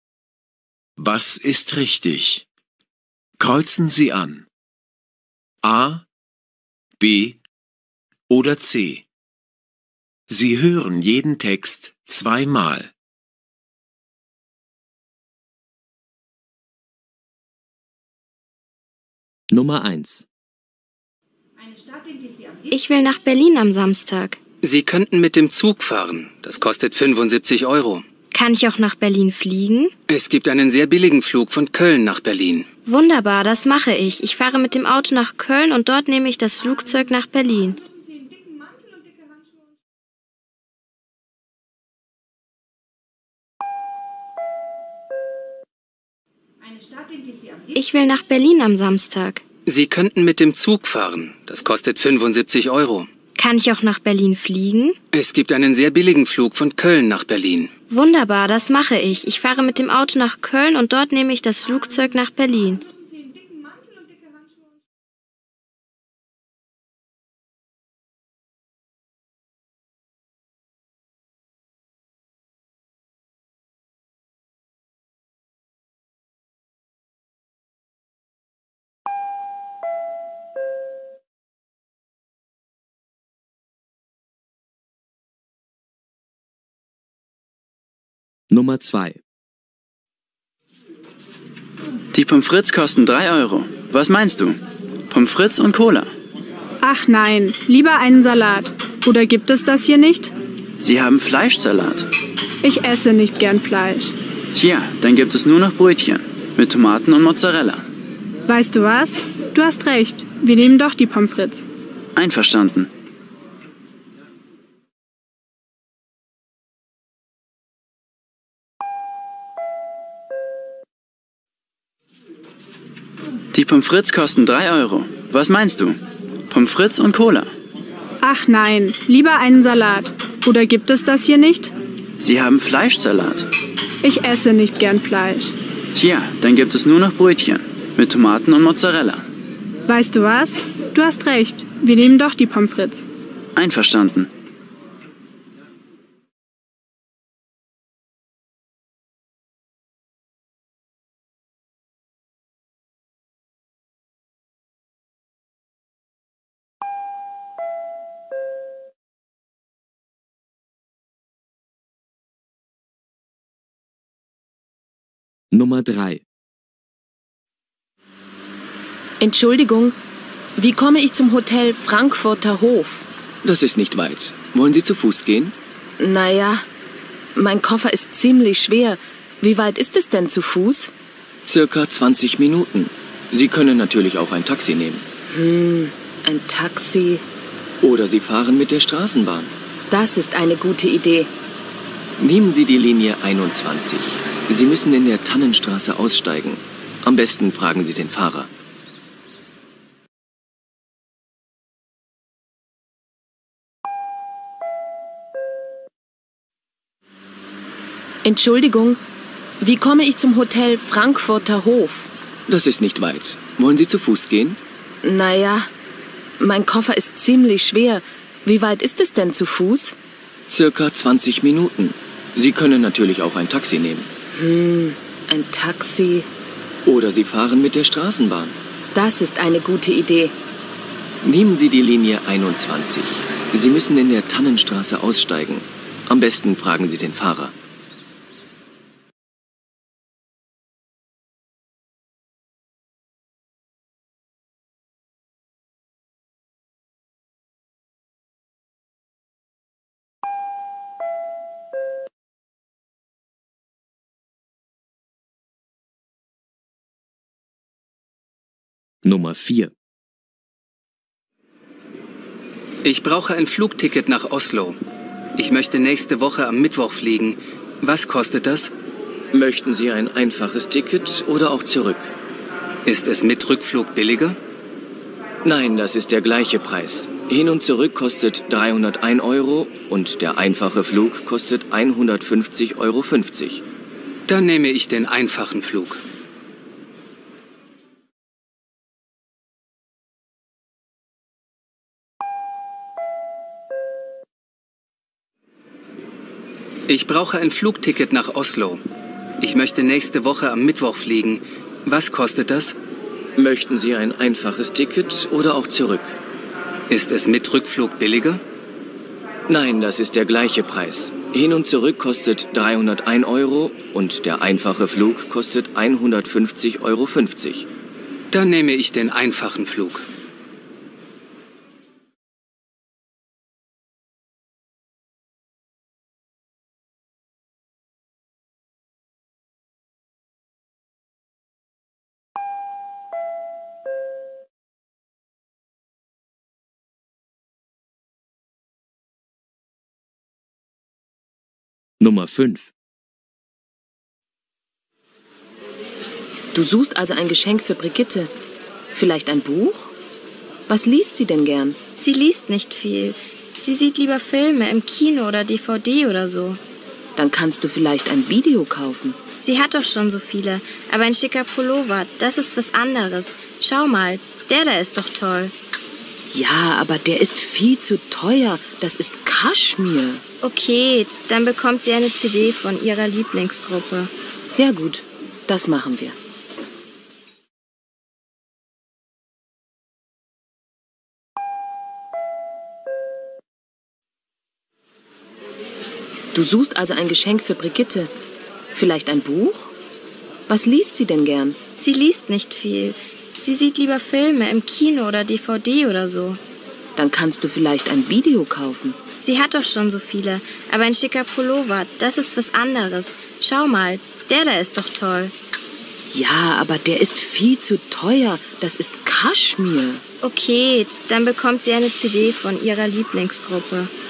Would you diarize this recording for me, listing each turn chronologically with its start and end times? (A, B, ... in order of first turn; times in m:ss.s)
0:01.0-0:02.4 A
0:03.4-0:04.4 A
0:05.6-0:06.0 A
0:07.0-0:07.4 A
0:08.3-0:09.0 A
0:10.3-0:12.9 A
0:19.5-0:20.2 B
0:22.7-0:24.4 C
0:24.6-0:28.0 D
0:28.3-0:29.9 C
0:30.1-0:32.7 D
0:32.8-0:37.8 C
0:47.7-0:49.4 C
0:49.6-0:53.1 D
0:53.4-0:55.0 C
0:55.1-0:57.7 D
0:57.9-1:02.8 C
1:28.5-1:29.2 B
1:32.1-1:36.1 E
1:36.8-1:40.3 F
1:40.8-1:42.1 E
1:42.6-1:44.1 F
1:44.5-1:47.8 E
1:48.5-1:51.6 F
1:52.2-1:52.9 E
2:03.5-2:07.5 E
2:08.2-2:11.7 F
2:12.2-2:13.5 E
2:14.0-2:15.6 F
2:15.9-2:19.2 E
2:19.8-2:23.0 F
2:23.6-2:24.3 E
2:45.5-2:46.2 B
2:49.2-2:50.0 G
2:50.6-2:53.0 G
2:53.4-2:55.5 H
2:56.0-2:56.6 G
2:57.3-3:00.9 G
3:01.4-3:05.0 H
3:05.3-3:07.2 G
3:07.8-3:09.5 H
3:09.9-3:11.3 G
3:12.2-3:18.5 H
3:28.2-3:29.0 G
3:29.6-3:32.1 G
3:32.5-3:34.6 H
3:35.0-3:35.7 G
3:36.4-3:40.0 G
3:40.5-3:44.1 H
3:44.3-3:46.3 G
3:46.8-3:48.6 H
3:48.9-3:50.3 G
3:51.2-3:57.5 H
4:19.0-4:19.7 B
4:22.8-4:24.8 D
4:25.4-4:28.7 D
4:29.3-4:32.1 H
4:32.8-4:34.4 D
4:35.4-4:43.6 H
4:44.3-4:46.0 D
4:56.9-4:58.8 D
4:59.4-5:02.8 D
5:03.4-5:06.2 H
5:06.9-5:08.4 D
5:09.5-5:17.7 H
5:18.3-5:20.0 D
5:42.0-5:42.7 B
5:46.5-5:48.3 G
5:48.9-5:49.9 G
5:50.7-5:51.8 G
5:52.0-5:56.6 C
5:57.2-5:59.2 G
5:59.4-6:05.5 C
6:06.3-6:10.2 G
6:10.4-6:14.1 C
6:14.6-6:16.2 G
6:26.3-6:28.1 G
6:28.7-6:29.7 G
6:30.5-6:31.6 G
6:31.8-6:36.4 C
6:37.0-6:39.0 G
6:39.2-6:45.3 C
6:46.1-6:50.0 G
6:50.2-6:53.9 C